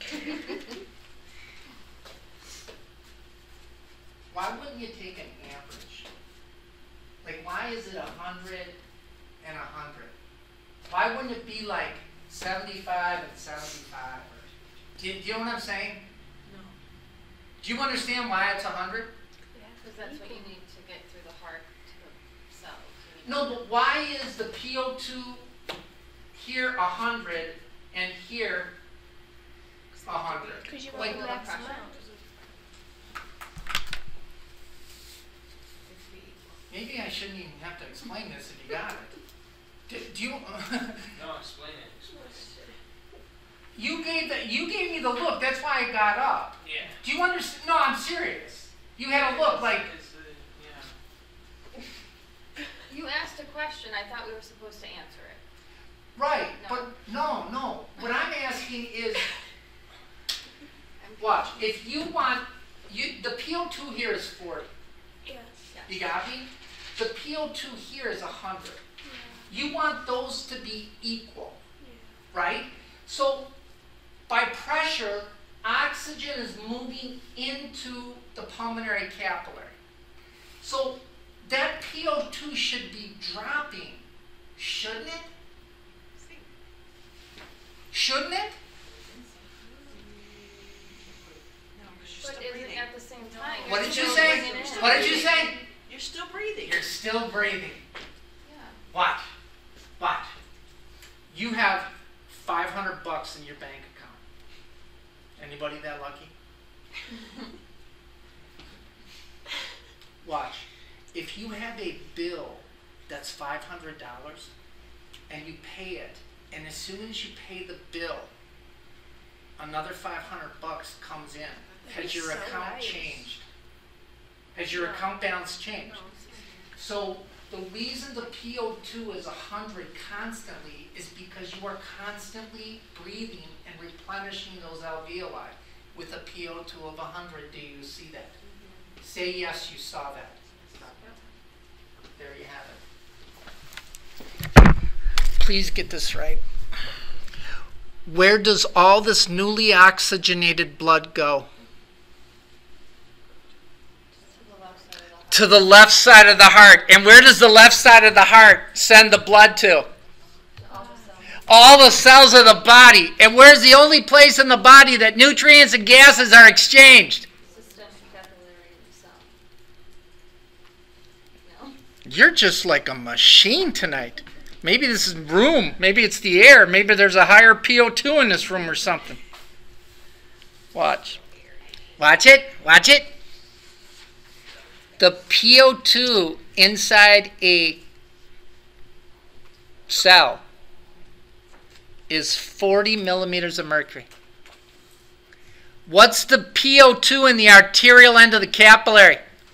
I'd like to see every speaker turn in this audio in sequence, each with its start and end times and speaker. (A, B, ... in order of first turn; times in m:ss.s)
0:04.3-0:06.1 A
0:07.2-0:08.8 A
0:09.4-0:10.1 A
0:10.9-0:16.0 A
0:16.4-0:16.7 B
0:17.6-0:19.1 A
0:19.5-0:20.5 C
0:19.8-0:23.6 D
0:23.2-0:25.5 A
0:26.3-0:28.7 A
0:30.0-0:32.7 B
0:30.0-0:30.7 A
0:30.3-0:31.9 D
0:30.6-0:31.9 C
0:35.8-0:36.6 B
0:36.7-0:39.1 A
0:39.9-0:41.1 A
0:41.1-0:42.5 E
0:42.1-0:42.7 C
0:43.7-0:49.9 A
0:46.6-0:47.0 E
0:49.1-0:50.9 E
0:52.9-0:55.4 D
0:56.2-0:59.3 A
0:56.6-0:56.9 D
1:01.0-1:01.6 D
1:01.2-1:04.7 A
1:05.2-1:05.5 C
1:05.7-1:06.1 D
1:05.9-1:08.8 A
1:09.0-1:09.5 C
1:09.5-1:11.6 A
1:11.8-1:12.1 C
1:12.3-1:13.5 A
1:14.3-1:19.7 A
1:20.6-1:24.0 A
1:24.6-1:25.3 A
1:26.2-1:26.5 B
1:27.9-1:28.6 A
1:29.9-1:30.9 B
1:31.0-1:31.4 E
1:31.7-1:36.9 B
1:32.2-1:35.4 D
1:33.6-1:35.6 A
1:33.8-1:35.3 C
1:36.6-1:37.8 A
1:38.4-1:38.8 D
1:38.9-1:39.3 A
1:40.0-1:40.3 A
1:41.3-1:44.2 A
1:45.4-1:46.3 A
1:50.2-1:54.5 A
1:55.3-1:58.3 A
1:59.6-2:03.4 A
2:01.6-2:02.1 B
2:01.8-2:03.2 C
2:04.5-2:06.0 A
2:04.6-2:05.0 D
2:05.8-2:06.7 B
2:06.8-2:18.3 A
2:18.4-2:18.8 B
2:19.0-2:20.4 A
2:20.5-2:21.3 B
2:20.8-2:21.2 D
2:22.2-2:22.8 A
2:25.4-2:26.4 A
2:28.0-2:31.5 A
2:34.1-2:36.0 D
2:35.3-2:39.9 A
2:40.6-2:41.6 D
2:40.7-2:41.1 C
2:41.5-2:47.2 A
2:47.4-2:49.3 D
2:51.4-2:51.7 D
2:52.0-2:59.2 A
3:00.7-3:01.2 A
3:00.8-3:01.7 D
3:02.0-3:03.1 A
3:05.0-3:07.8 A
3:09.9-3:10.4 A
3:12.1-3:14.1 A
3:15.8-3:19.2 A